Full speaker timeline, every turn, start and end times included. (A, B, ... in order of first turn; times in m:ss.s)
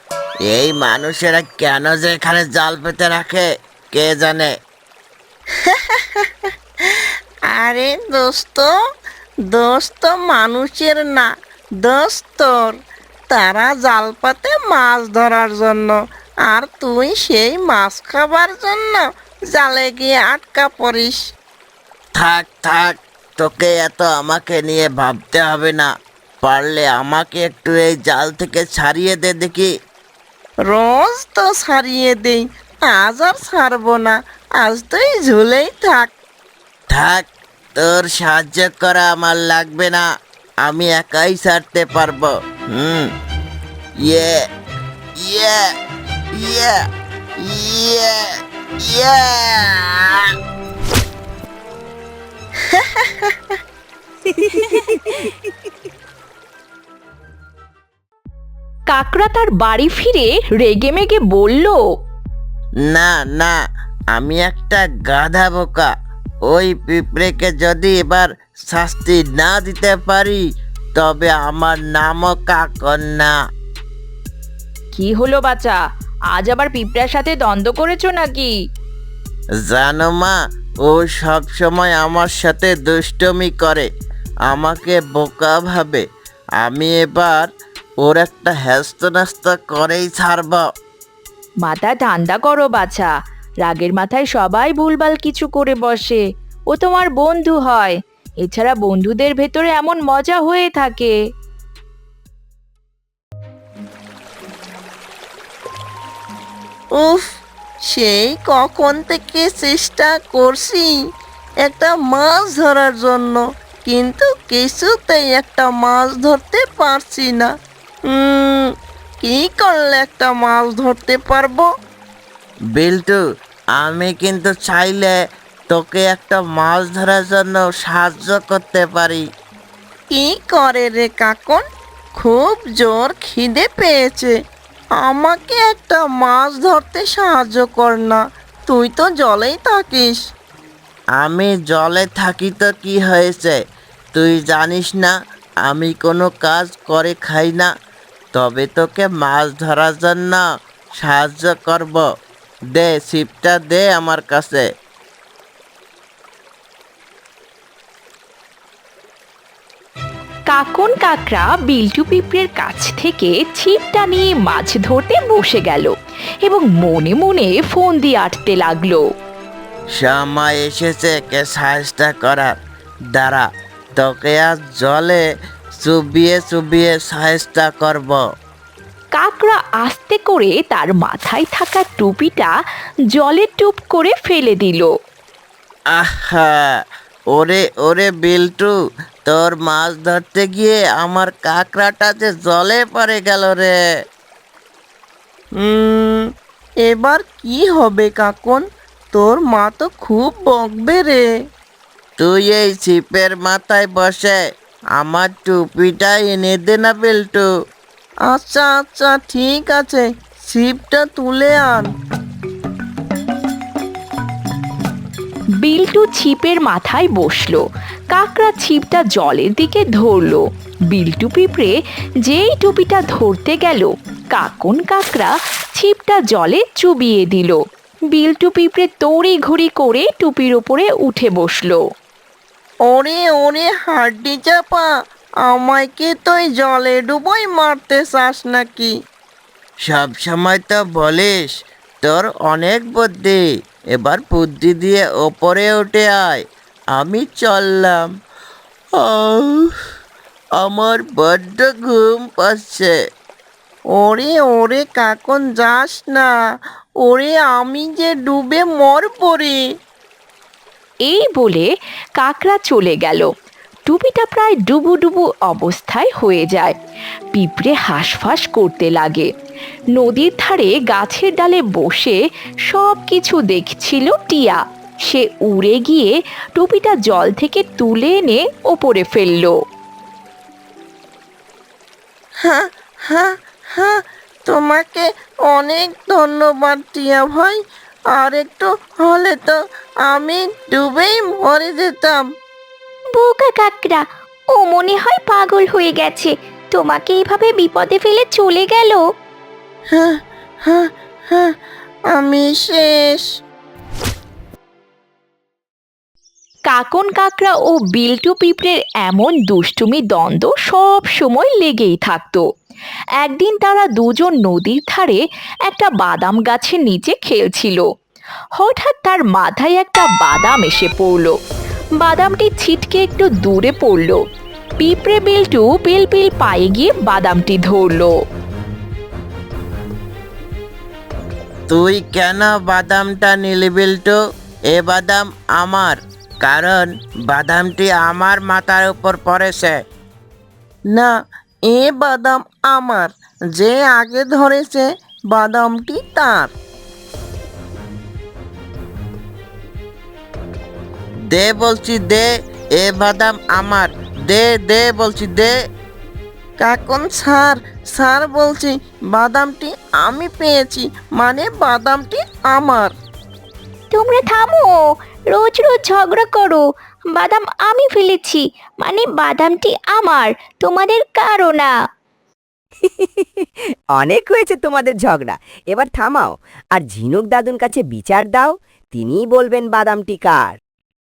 0:00.5-0:04.5 A
0:05.7-0:06.2 B
0:07.5-0:08.7 B
0:09.5-0:11.3 B
0:11.8-0:12.8 B
0:13.3-0:21.2 B
0:22.2-0:25.9 A
0:26.4-0:29.7 A
0:30.7-0:36.1 B
0:36.9-0:40.0 A
0:40.6-0:43.1 A
0:44.0-0:44.4 A
0:45.2-0:45.7 A
0:46.3-0:46.8 A
0:47.4-0:50.3 A
0:58.9-1:01.8 C
1:02.9-1:03.6 A
1:04.1-1:05.9 A
1:06.5-1:10.4 A
1:10.9-1:13.3 A
1:14.9-1:15.8 C
1:16.3-1:18.5 C
1:19.6-1:23.9 A
1:24.5-1:26.0 A
1:26.6-1:27.5 A
1:28.0-1:30.6 A
1:31.6-1:33.1 C
1:33.6-1:36.2 C
1:36.7-1:41.2 C
1:46.9-1:47.3 B
1:47.8-1:50.9 B
1:51.6-1:57.5 B
1:58.1-2:01.7 B
2:02.7-2:03.2 A
2:03.7-2:05.2 A
2:05.7-2:09.2 A
2:10.1-2:11.6 B
2:12.2-2:14.3 B
2:15.0-2:20.2 B
2:21.2-2:23.6 A
2:24.1-2:27.7 A
2:28.3-2:30.4 A
2:31.0-2:32.0 A
2:32.7-2:34.6 A
2:40.5-2:45.9 C
2:46.4-2:49.0 C
2:50.0-2:52.5 A
2:53.1-2:55.2 A
2:55.8-2:58.2 A
2:59.1-3:02.5 C
3:03.1-3:04.9 C
3:05.9-3:13.8 A
3:15.6-3:16.3 B
3:16.8-3:21.2 B
3:22.2-3:24.4 A
3:25.0-3:27.5 A
3:28.3-3:31.9 B
3:35.6-3:47.6 C
3:48.1-3:51.8 C
3:52.9-3:54.9 B
3:55.4-3:58.9 B
3:59.8-4:01.5 A
4:02.0-4:03.4 A
4:03.9-4:06.4 A
4:06.9-4:08.0 A
4:09.0-4:09.7 A
4:10.6-4:12.9 A
4:14.0-4:16.3 B
4:17.0-4:19.6 B
4:21.1-4:23.2 C
4:23.8-4:26.7 C
4:27.3-4:29.3 C
4:29.9-4:39.5 C
4:42.4-4:47.6 B
4:48.1-4:52.2 B
4:53.1-4:59.0 D
4:59.9-5:01.5 B
5:02.1-5:03.2 B
5:06.7-5:12.4 C
5:13.2-5:17.8 C
5:18.6-5:21.3 C
5:22.0-5:24.2 C
5:24.8-5:28.1 C
5:31.7-5:34.2 A
5:34.7-5:39.8 A
5:41.7-5:46.5 B
5:51.3-5:55.5 A
5:56.6-6:02.9 B
6:03.9-6:04.8 D
6:05.3-6:06.6 D
6:07.1-6:11.7 D
6:13.9-6:20.6 E